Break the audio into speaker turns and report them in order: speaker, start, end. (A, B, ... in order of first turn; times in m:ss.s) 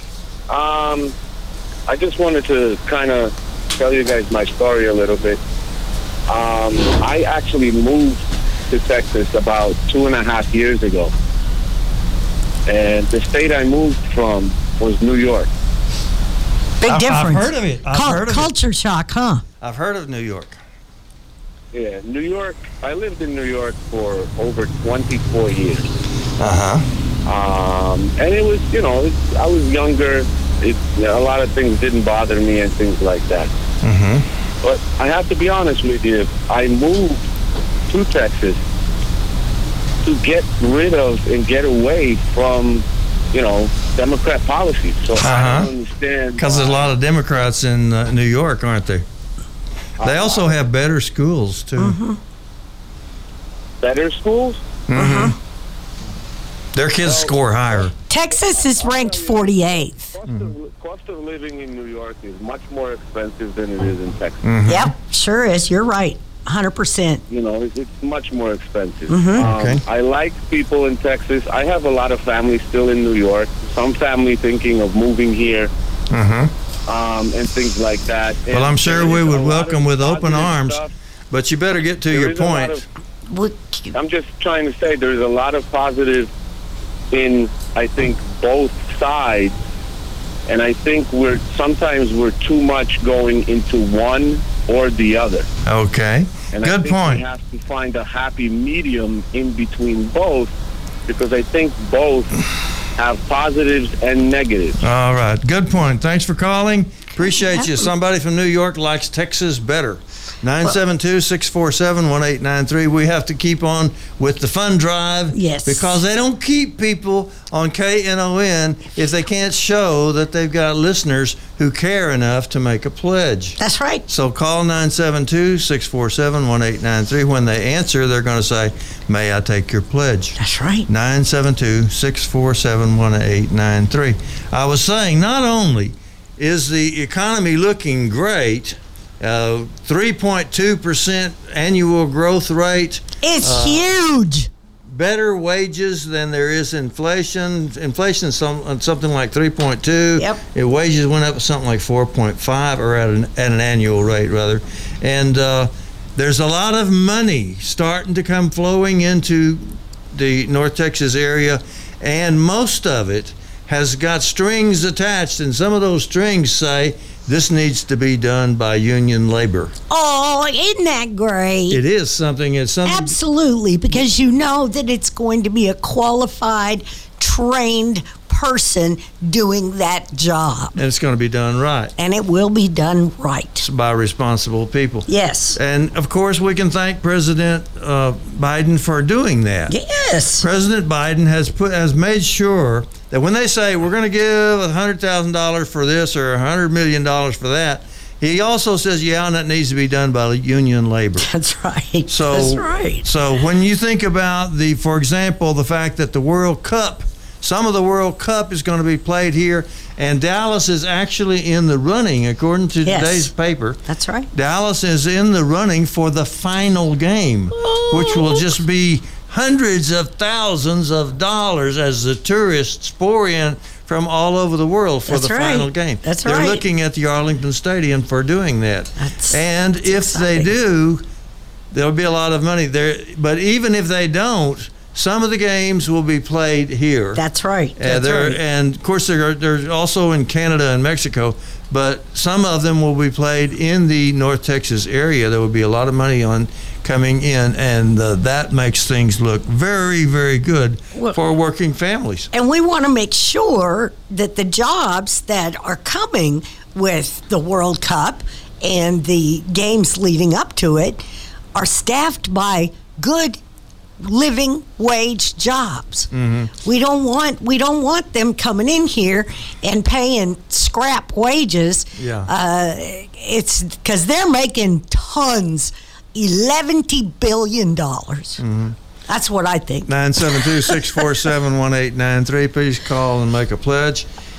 0:00.5-0:01.1 A
0:01.9-0:05.4 A
0:06.3-0:11.1 A
0:12.7-0:15.5 A
0:16.8-0:19.4 B
0:16.8-0:18.5 C
0:19.6-0:20.6 C
0:21.7-0:25.9 A
0:26.4-0:26.8 C
0:27.2-0:33.5 A
0:33.8-0:34.3 C
0:34.6-0:37.2 A
0:37.9-0:38.6 A
0:40.0-0:46.8 A
0:45.2-0:45.7 C
0:46.4-0:49.0 C
0:50.0-0:50.4 A
0:50.0-0:52.0 C
0:51.8-0:52.2 B
0:53.8-0:54.6 A
0:54.9-0:55.4 C
0:55.0-0:55.3 B
0:56.7-0:57.9 C
0:57.0-1:04.4 A
0:58.1-1:00.1 B
1:04.4-1:04.9 C
1:04.6-1:07.2 B
1:07.3-1:15.7 A
1:09.1-1:09.4 B
1:09.4-1:09.8 C
1:16.1-1:16.5 C
1:16.9-1:20.9 A
1:18.5-1:22.8 C
1:22.1-1:22.8 A
1:23.3-1:23.9 B
1:23.9-1:26.3 A
1:27.1-1:29.5 A
1:30.5-1:35.5 A
1:35.6-1:37.2 C
1:36.5-1:40.5 A
1:41.1-1:42.4 A
1:43.0-1:44.8 A
1:44.8-2:23.9 C
1:55.3-1:56.0 B
2:03.6-2:04.0 B
2:10.4-2:10.9 B
2:23.2-2:24.5 B
2:24.9-2:49.7 C
2:49.9-2:51.8 B
2:51.7-2:53.2 C
2:52.8-3:00.8 B
3:00.8-3:01.9 C
3:02.0-3:03.6 B
3:03.6-3:09.7 C
3:05.1-3:05.6 B
3:09.7-3:10.4 B
3:10.4-3:21.3 C
3:21.2-3:23.0 B
3:22.1-3:33.8 C
3:32.8-3:33.3 B
3:33.8-3:34.3 B
3:34.3-3:51.0 C
3:37.5-3:38.5 B
3:45.1-3:46.6 B
3:49.0-3:50.5 B
3:51.7-3:57.2 C
3:57.1-3:58.4 B
3:57.8-4:12.3 C
4:12.3-4:21.0 B
4:21.5-4:23.4 B
4:24.0-4:38.4 B
4:26.1-4:26.5 C
4:32.0-4:32.3 C
4:38.4-4:38.8 C
4:39.1-4:41.0 B
4:39.9-4:44.1 C